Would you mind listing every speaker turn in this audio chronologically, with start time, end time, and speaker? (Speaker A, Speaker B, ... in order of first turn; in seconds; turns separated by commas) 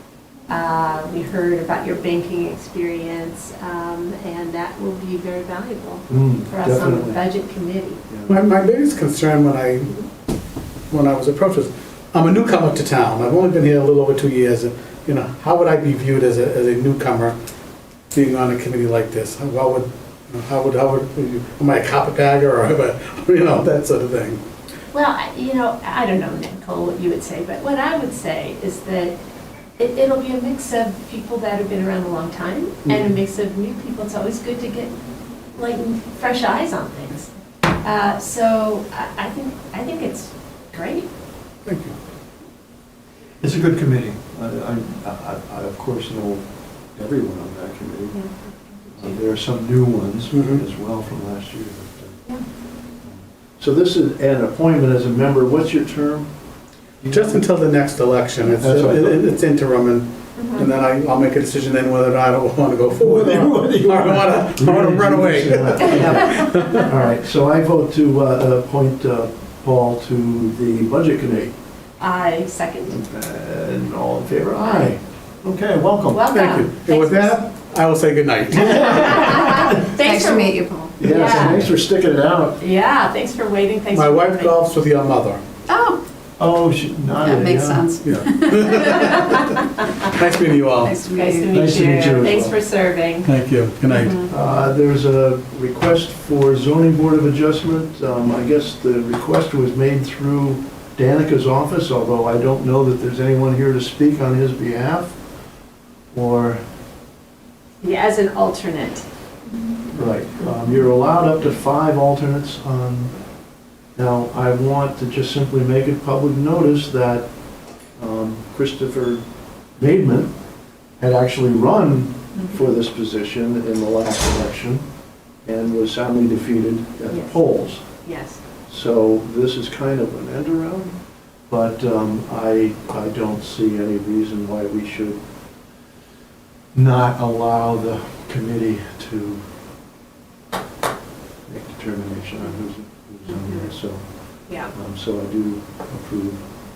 Speaker A: 0.5-8.0, Speaker B: 6.1-7.2, Speaker C: 8.3-10.0, Speaker C: 10.9-17.3, Speaker C: 18.1-24.4, Speaker A: 24.9-29.1, Speaker A: 29.8-35.0, Speaker A: 35.5-41.1, Speaker C: 41.6-42.0, Speaker B: 43.4-48.2, Speaker A: 48.1-49.2, Speaker B: 49.0-52.2, Speaker C: 50.3-50.6, Speaker B: 53.0-56.3, Speaker B: 57.0-57.4, Speaker C: 57.1-66.9, Speaker B: 58.5-59.2, Speaker A: 60.4-60.7, Speaker B: 62.9-71.5, Speaker D: 66.0-66.3, Speaker A: 72.0-73.0, Speaker B: 72.9-76.3, Speaker A: 76.1-77.4, Speaker C: 76.2-79.9, Speaker B: 78.6-79.7, Speaker A: 78.9-81.7, Speaker D: 79.8-81.5, Speaker B: 81.0-82.6, Speaker A: 82.6-84.5, Speaker C: 83.9-85.4, Speaker D: 85.7-86.0, Speaker B: 86.4-87.9, Speaker D: 87.2-89.1, Speaker C: 88.0-91.0, Speaker A: 88.8-89.8, Speaker D: 90.8-91.5, Speaker A: 91.1-93.3, Speaker B: 91.5-92.6, Speaker C: 93.2-94.2, Speaker D: 93.9-94.3, Speaker A: 93.9-94.3, Speaker B: 94.2-105.2, Speaker B: 106.1-106.6, Speaker A: 107.8-109.0, Speaker B: 109.9-113.1, Speaker B: 114.0-117.3, Speaker B: 118.0-119.2, Speaker B: 119.8-120.3, Speaker B: 121.0-124.8, Speaker A: 122.3-122.6, Speaker B: 125.4-127.8, Speaker A: 127.1-127.4, Speaker A: 128.0-128.4, Speaker B: 128.7-130.9, Speaker B: 131.5-135.2, Speaker B: 136.7-139.4, Speaker B: 141.5-146.4, Speaker A: 143.4-143.7, Speaker A: 144.5-144.7